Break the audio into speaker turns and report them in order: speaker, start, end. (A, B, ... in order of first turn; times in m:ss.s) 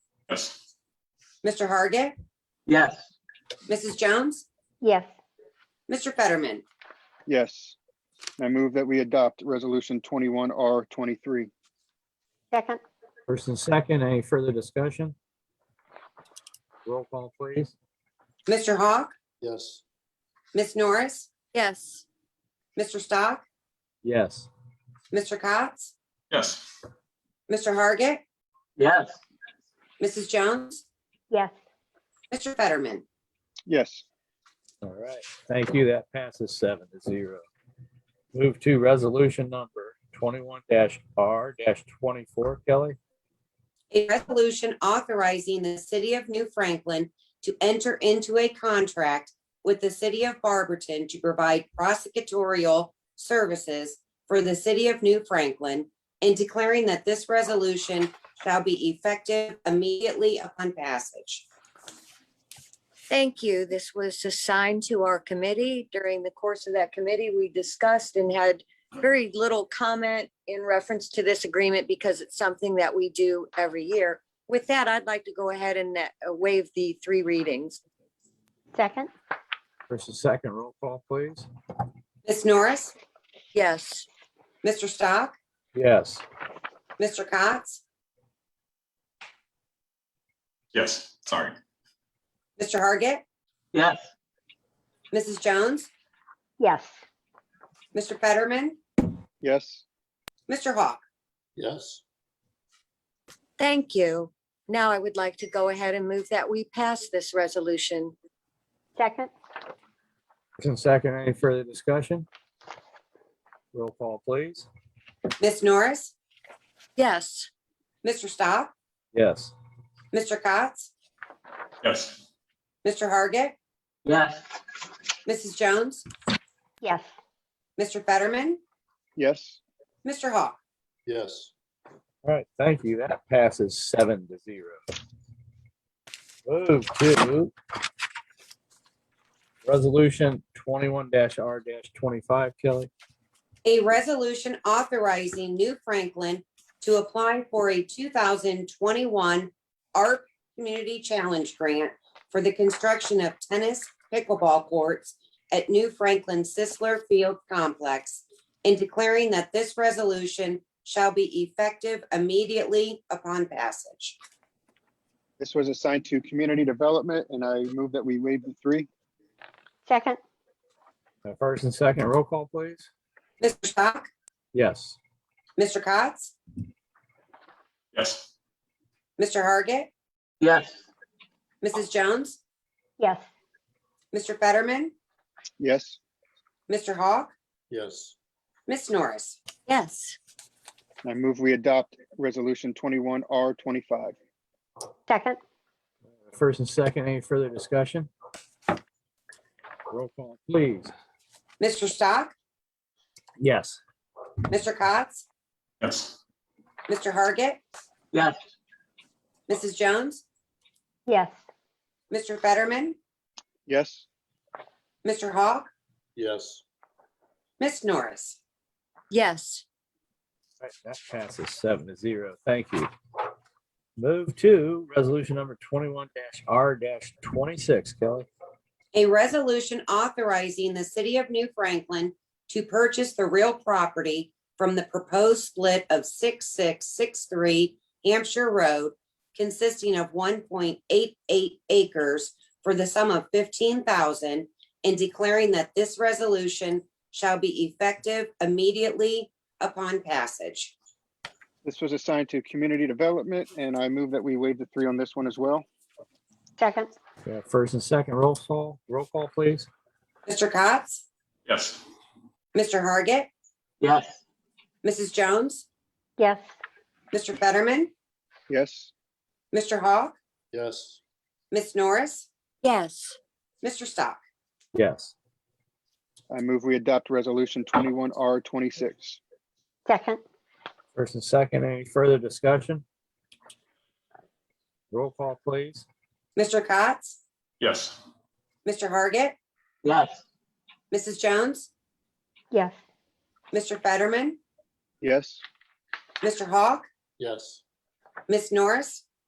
0:00.3-0:00.6 A
0:01.4-0:02.1 B
0:02.7-0:03.1 C
0:03.7-0:04.4 B
0:04.8-0:05.1 D
0:05.9-0:06.6 B
0:07.3-0:07.8 E
0:08.4-0:11.5 E
0:12.5-0:12.8 D
0:13.3-0:15.1 F
0:16.8-0:17.7 F
0:18.4-0:19.1 B
0:19.4-0:19.8 G
0:20.5-0:21.3 B
0:21.5-0:22.0 H
0:22.8-0:23.4 B
0:24.0-0:24.5 F
0:25.1-0:25.9 B
0:26.3-0:26.7 A
0:27.5-0:28.2 B
0:28.8-0:29.2 C
0:30.0-0:30.8 B
0:32.3-0:33.0 B
0:33.7-0:34.0 E
0:34.8-0:37.4 F
0:38.3-0:43.0 F
0:43.9-1:01.4 B
1:03.1-1:17.8 H
1:18.7-1:19.1 D
1:19.9-1:21.5 F
1:22.2-1:22.9 B
1:23.5-1:24.1 H
1:24.6-1:25.3 B
1:25.7-1:26.2 F
1:27.0-1:27.8 B
1:30.7-1:31.6 A
1:32.6-1:33.2 B
1:33.7-1:34.1 C
1:35.1-1:35.9 B
1:36.6-1:36.9 D
1:37.9-1:38.8 B
1:39.4-1:39.8 E
1:40.5-1:41.0 B
1:41.6-1:42.0 G
1:43.6-1:48.1 H
1:49.0-1:49.3 D
1:50.6-1:52.2 F
1:53.7-1:54.7 F
1:55.4-1:56.1 B
1:57.0-1:57.5 H
1:58.0-1:58.7 B
1:59.1-1:59.5 F
2:00.1-2:00.9 B
2:01.8-2:02.2 A
2:02.8-2:03.5 B
2:04.0-2:04.6 C
2:05.2-2:06.0 B
2:06.8-2:07.1 D
2:07.8-2:08.6 B
2:09.2-2:09.6 E
2:10.0-2:10.6 B
2:11.0-2:11.5 G
2:12.2-2:14.8 F
2:16.4-2:17.5 F
2:19.6-2:22.9 F
2:23.6-2:44.2 B
2:45.4-2:48.9 E
2:49.8-2:50.2 D
2:51.2-2:52.9 F
2:53.4-2:54.1 B
2:54.5-2:55.0 F
2:55.6-2:56.3 B
2:57.9-2:58.3 A
2:59.2-2:59.9 B
3:00.4-3:00.8 C
3:01.6-3:02.4 B
3:03.0-3:03.2 D
3:04.1-3:04.9 B
3:05.6-3:06.0 E
3:06.7-3:07.3 B
3:07.7-3:08.1 G
3:08.7-3:09.4 B
3:09.7-3:10.2 H
3:11.0-3:14.1 E
3:15.1-3:15.4 D
3:16.3-3:18.1 F
3:19.9-3:20.9 F
3:21.6-3:22.3 B
3:23.4-3:23.8 F
3:24.5-3:25.2 B
3:25.8-3:26.2 A
3:26.9-3:27.6 B
3:28.1-3:28.4 C
3:29.5-3:30.2 B
3:31.1-3:31.4 D
3:32.1-3:33.0 B
3:33.7-3:34.0 E
3:35.0-3:35.7 B
3:36.2-3:36.6 G
3:37.6-3:38.4 B
3:39.1-3:39.6 H
3:40.6-3:42.9 F
3:44.0-3:48.3 F
3:48.9-4:10.7 B
4:11.6-4:15.6 E
4:16.6-4:16.9 D
4:17.2-4:19.7 F
4:20.2-4:21.0 B
4:21.4-4:21.8 A
4:22.5-4:23.3 B
4:23.8-4:24.2 C
4:24.8-4:25.6 B
4:26.2-4:26.5 D
4:27.1-4:27.9 B
4:28.5-4:28.9 E
4:29.5-4:30.2 B
4:30.5-4:31.0 G
4:31.5-4:32.3 B
4:32.6-4:33.2 H
4:33.6-4:34.2 B
4:34.7-4:35.1 F
4:36.3-4:39.2 E
4:39.8-4:40.2 D
4:40.9-4:42.8 F
4:44.9-4:45.8 F
4:46.4-4:47.2 B
4:47.6-4:48.0 A
4:48.6-4:49.4 B
4:49.8-4:50.2 C
4:50.9-4:51.7 B
4:52.5-4:52.8 D
4:53.5-4:54.4 B
4:55.0-4:55.4 E
4:56.2-4:56.8 B
4:57.2-4:57.6 G
4:58.3-4:59.0 B